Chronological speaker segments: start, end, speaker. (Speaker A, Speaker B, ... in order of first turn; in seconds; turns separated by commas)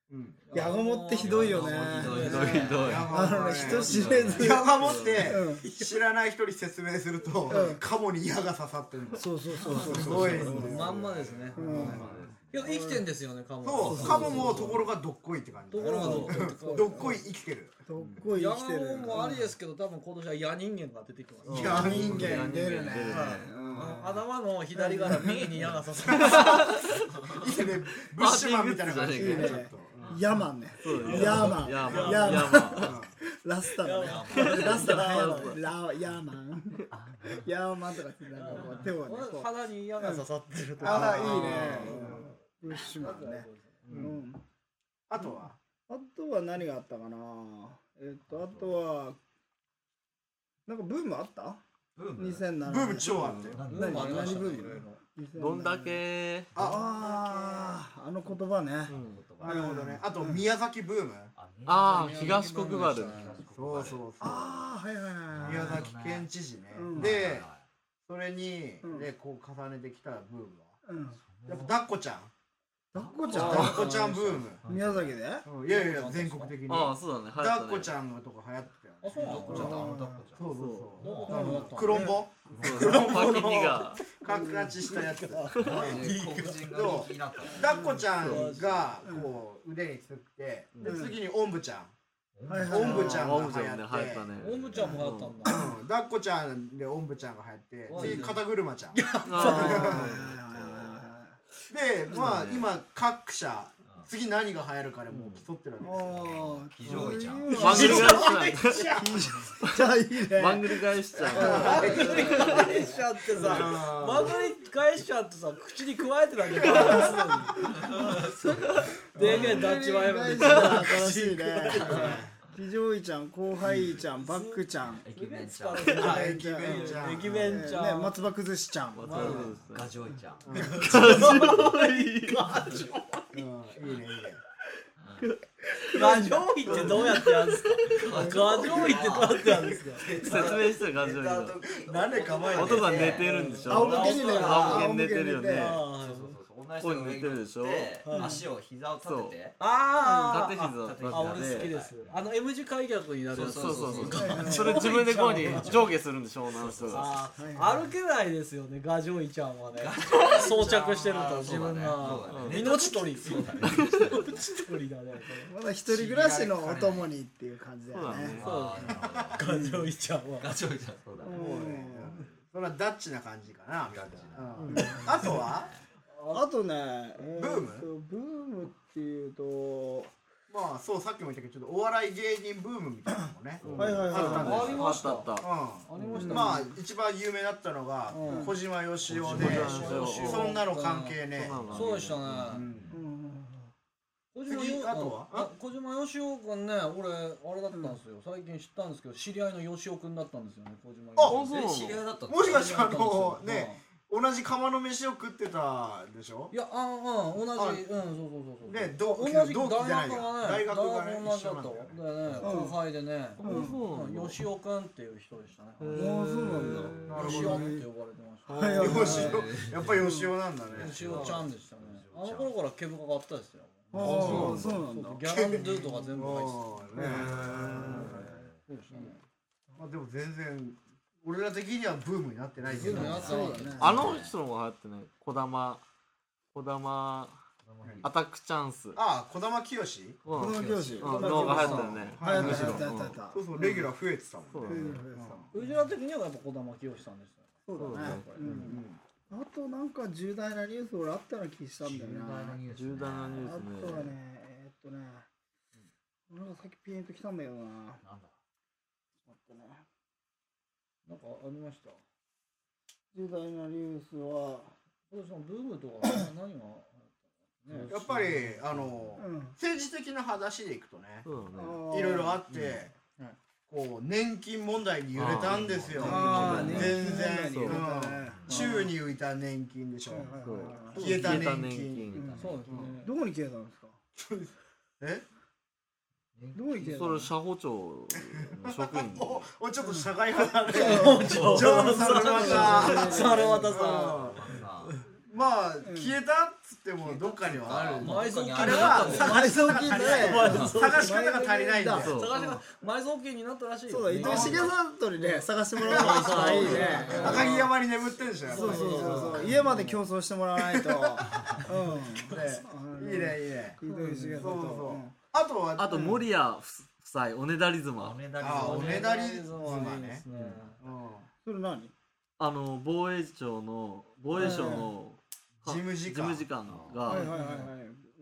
Speaker A: 0.1-0.4, Speaker B: 0.5-3.0, Speaker C: 0.5-4.7, Speaker D: 1.2-4.9, Speaker A: 2.2-12.3, Speaker E: 3.9-5.3, Speaker C: 5.2-5.7, Speaker B: 5.6-6.0, Speaker C: 7.5-7.8, Speaker C: 9.2-11.0, Speaker B: 9.7-14.8, Speaker E: 9.7-10.6, Speaker D: 10.1-12.7, Speaker C: 11.5-12.1, Speaker C: 12.6-13.1, Speaker A: 13.6-17.8, Speaker C: 13.9-14.8, Speaker E: 13.9-14.7, Speaker B: 15.7-17.2, Speaker C: 15.7-17.2, Speaker C: 17.9-19.5, Speaker B: 18.3-22.2, Speaker A: 21.5-22.5, Speaker E: 21.5-23.6, Speaker C: 21.5-24.1, Speaker B: 23.1-26.8, Speaker A: 23.6-24.1, Speaker C: 24.8-25.4, Speaker A: 26.1-30.2, Speaker E: 26.2-26.9, Speaker E: 28.1-29.7, Speaker C: 29.1-40.2, Speaker E: 30.8-32.9, Speaker A: 31.1-31.3, Speaker B: 31.1-32.9, Speaker A: 31.9-32.2, Speaker A: 32.8-33.1, Speaker B: 33.8-35.5, Speaker D: 34.0-35.0, Speaker E: 34.4-35.6, Speaker D: 36.9-37.5, Speaker B: 38.4-43.9, Speaker C: 40.8-44.4, Speaker A: 40.8-42.3, Speaker E: 41.1-41.9, Speaker A: 43.9-44.2, Speaker A: 45.1-45.6, Speaker C: 45.2-49.2, Speaker D: 48.3-48.8, Speaker C: 50.7-51.6, Speaker D: 52.0-52.5, Speaker C: 52.2-60.4, Speaker A: 52.6-53.6, Speaker D: 53.4-54.8, Speaker B: 53.7-55.0, Speaker E: 55.4-56.5, Speaker A: 56.5-57.0, Speaker D: 56.6-57.2, Speaker E: 58.9-59.2, Speaker D: 58.9-59.9, Speaker A: 59.4-61.3, Speaker D: 61.4-64.1, Speaker E: 61.7-63.3, Speaker B: 62.2-63.5, Speaker A: 63.5-64.7, Speaker C: 64.2-65.9, Speaker D: 65.3-66.3, Speaker A: 65.4-67.5, Speaker C: 66.7-67.1, Speaker D: 66.9-67.7, Speaker A: 68.1-70.8, Speaker C: 68.8-69.1, Speaker C: 70.8-71.2, Speaker D: 71.2-71.8, Speaker A: 71.5-72.3, Speaker C: 72.9-73.9, Speaker D: 73.0-73.6, Speaker A: 73.3-74.6, Speaker B: 73.3-74.5, Speaker D: 74.6-75.2, Speaker C: 74.7-75.5, Speaker A: 75.5-86.1, Speaker B: 75.7-76.6, Speaker E: 76.7-77.9, Speaker B: 79.0-79.8, Speaker D: 79.1-80.5, Speaker C: 79.5-80.3, Speaker E: 80.5-80.9, Speaker D: 81.0-81.7, Speaker B: 81.0-82.1, Speaker C: 81.3-82.3, Speaker D: 82.5-83.2, Speaker E: 82.6-84.1, Speaker C: 84.2-84.9, Speaker B: 84.8-87.0, Speaker D: 85.6-87.8, Speaker A: 86.7-91.9, Speaker C: 87.7-88.1, Speaker E: 88.2-88.5, Speaker B: 88.2-89.0, Speaker C: 89.0-89.3, Speaker C: 90.8-91.2, Speaker D: 92.3-93.1, Speaker C: 92.5-93.4, Speaker A: 92.7-94.3, Speaker E: 92.8-95.5, Speaker B: 94.4-95.6, Speaker C: 94.8-95.8, Speaker A: 95.5-100.2, Speaker B: 97.9-100.0, Speaker E: 99.2-100.8, Speaker C: 99.3-101.3, Speaker A: 101.7-106.3, Speaker C: 102.1-102.4, Speaker E: 102.1-102.7, Speaker D: 103.8-104.1, Speaker C: 105.8-112.9, Speaker D: 106.0-108.2, Speaker E: 107.5-109.0, Speaker B: 107.6-109.0, Speaker E: 109.6-112.6, Speaker A: 111.3-112.6, Speaker B: 111.4-117.7, Speaker D: 111.5-113.6, Speaker A: 113.3-114.4, Speaker A: 116.6-117.1, Speaker C: 116.7-117.2, Speaker D: 117.8-119.0, Speaker B: 119.2-122.2, Speaker C: 119.2-125.0, Speaker A: 119.2-119.5, Speaker E: 120.4-120.8, Speaker A: 121.9-122.4, Speaker A: 123.7-123.9, Speaker B: 124.2-128.2, Speaker D: 125.0-126.0, Speaker A: 126.0-127.5, Speaker C: 126.0-129.3, Speaker D: 127.2-127.7, Speaker E: 128.9-130.0, Speaker B: 129.0-129.5, Speaker D: 129.2-131.7, Speaker A: 130.5-131.3, Speaker B: 130.5-133.1, Speaker E: 130.7-132.9, Speaker A: 133.3-134.4, Speaker D: 135.0-135.3, Speaker E: 135.2-136.1, Speaker C: 135.9-137.0, Speaker B: 135.9-140.1, Speaker E: 136.7-138.1, Speaker A: 136.7-137.0, Speaker D: 137.9-144.5, Speaker C: 138.2-138.8, Speaker E: 140.1-141.6, Speaker A: 141.8-143.3, Speaker E: 142.6-145.8, Speaker B: 143.2-144.9, Speaker C: 143.6-145.8, Speaker A: 144.4-144.8, Speaker B: 145.5-146.4, Speaker D: 146.0-149.6, Speaker E: 146.8-148.0, Speaker B: 148.1-148.4, Speaker C: 148.1-148.4, Speaker E: 149.0-149.4, Speaker B: 149.6-155.9, Speaker C: 150.0-150.4, Speaker E: 150.3-151.7, Speaker D: 150.8-152.2, Speaker D: 153.3-154.9, Speaker E: 153.5-157.2, Speaker C: 154.2-155.6, Speaker D: 155.5-157.8, Speaker B: 156.9-165.5, Speaker C: 157.4-157.8, Speaker D: 159.8-164.4, Speaker E: 162.3-162.8, Speaker E: 163.6-164.3, Speaker C: 165.5-168.4, Speaker D: 165.9-167.1, Speaker E: 167.9-168.8, Speaker D: 168.3-169.4, Speaker B: 168.4-170.5, Speaker A: 168.9-169.4, Speaker C: 169.5-169.9, Speaker D: 170.4-171.5, Speaker C: 171.2-172.2, Speaker A: 171.3-175.7, Speaker D: 173.9-175.8, Speaker E: 174.6-175.1, Speaker C: 174.7-175.0, Speaker B: 176.1-176.5, Speaker C: 176.3-180.1, Speaker A: 177.3-177.9, Speaker A: 180.5-191.9, Speaker E: 183.6-185.5, Speaker C: 183.8-184.8, Speaker B: 184.1-185.4, Speaker B: 185.9-186.7, Speaker C: 186.1-186.8, Speaker B: 188.1-188.6, Speaker C: 188.2-188.6, Speaker E: 189.1-190.7, Speaker B: 189.3-191.2, Speaker E: 191.3-192.6, Speaker D: 191.5-191.8, Speaker B: 191.7-192.7, Speaker A: 192.5-192.9, Speaker D: 192.7-193.0, Speaker C: 192.9-193.7, Speaker B: 194.3-201.4, Speaker A: 194.5-195.5, Speaker C: 197.7-198.0, Speaker A: 201.2-201.4, Speaker E: 201.3-202.1, Speaker D: 201.3-203.4, Speaker A: 202.3-206.5, Speaker B: 202.5-203.8, Speaker B: 206.5-216.2, Speaker A: 207.6-207.8, Speaker A: 208.7-212.4, Speaker C: 212.4-212.8, Speaker E: 213.4-214.4, Speaker C: 213.4-213.8, Speaker E: 215.8-217.1, Speaker C: 215.9-217.8, Speaker B: 216.7-219.3, Speaker A: 217.1-217.8, Speaker C: 218.5-219.5, Speaker E: 218.5-219.1, Speaker A: 218.8-221.3, Speaker D: 218.9-220.1, Speaker C: 220.0-220.3, Speaker D: 220.7-222.5, Speaker B: 220.8-229.2, Speaker C: 223.9-225.2, Speaker A: 223.9-228.4, Speaker E: 224.2-224.6, Speaker C: 226.9-228.1, Speaker D: 227.1-228.6, Speaker A: 229.8-233.6, Speaker D: 232.7-234.4, Speaker B: 232.8-233.8, Speaker C: 233.1-234.0, Speaker E: 233.8-235.8, Speaker E: 236.5-237.4, Speaker D: 237.6-238.1, Speaker E: 238.0-239.0, Speaker A: 238.9-240.2, Speaker E: 240.2-243.2, Speaker C: 240.3-243.9, Speaker D: 240.4-241.1, Speaker A: 241.0-245.5, Speaker B: 241.1-241.9, Speaker E: 244.5-245.1, Speaker C: 244.7-245.5, Speaker B: 245.5-247.6, Speaker C: 247.7-252.6, Speaker E: 247.8-248.6, Speaker A: 248.0-249.0, Speaker D: 251.8-253.6, Speaker E: 252.7-254.1, Speaker C: 253.4-255.3, Speaker C: 256.3-258.0, Speaker D: 258.0-258.3, Speaker C: 259.2-259.8, Speaker B: 261.1-262.0, Speaker C: 263.1-264.7, Speaker B: 265.1-267.1, Speaker C: 266.0-266.3, Speaker B: 267.6-268.0, Speaker E: 267.8-268.1, Speaker A: 267.9-271.3, Speaker D: 268.9-269.2, Speaker C: 269.2-269.6, Speaker E: 271.3-271.9, Speaker C: 271.6-272.4, Speaker A: 271.9-272.9, Speaker A: 273.7-282.1, Speaker E: 275.1-277.8, Speaker D: 275.2-276.9, Speaker C: 276.0-278.9, Speaker B: 276.2-277.0, Speaker B: 278.5-278.9, Speaker C: 280.1-281.4, Speaker E: 280.4-282.6, Speaker D: 282.1-282.5, Speaker C: 282.1-282.4, Speaker B: 282.4-283.1, Speaker A: 282.7-283.0, Speaker C: 283.0-284.0, Speaker A: 284.2-285.3, Speaker D: 286.4-286.9, Speaker C: 286.6-287.3, Speaker E: 286.8-289.5, Speaker A: 288.2-294.5, Speaker C: 289.8-290.1, Speaker C: 290.7-293.8, Speaker B: 290.7-294.2, Speaker E: 291.3-293.3, Speaker D: 294.0-294.9, Speaker A: 295.3-302.2, Speaker C: 295.8-296.1, Speaker D: 297.4-299.4, Speaker B: 298.0-301.1, Speaker C: 299.1-302.2, Speaker D: 299.9-300.8, Speaker E: 300.4-300.8, Speaker E: 302.0-302.6, Speaker B: 302.1-304.7, Speaker C: 303.9-307.5, Speaker A: 304.1-304.8, Speaker A: 305.8-310.0, Speaker B: 305.9-307.7, Speaker E: 305.9-307.6, Speaker B: 308.4-309.7, Speaker C: 308.5-315.2, Speaker A: 310.6-311.6, Speaker A: 312.2-313.8, Speaker B: 313.9-314.4, Speaker A: 314.4-316.2, Speaker E: 315.8-318.3, Speaker C: 315.9-316.2, Speaker D: 318.0-319.3, Speaker A: 318.4-320.2, Speaker B: 318.5-320.8, Speaker E: 320.3-320.7, Speaker A: 320.8-321.3, Speaker C: 321.4-321.9, Speaker E: 322.4-327.4, Speaker C: 324.3-324.9, Speaker B: 324.4-324.7, Speaker A: 325.6-326.5, Speaker D: 326.7-327.0, Speaker C: 327.1-328.0, Speaker B: 327.1-327.7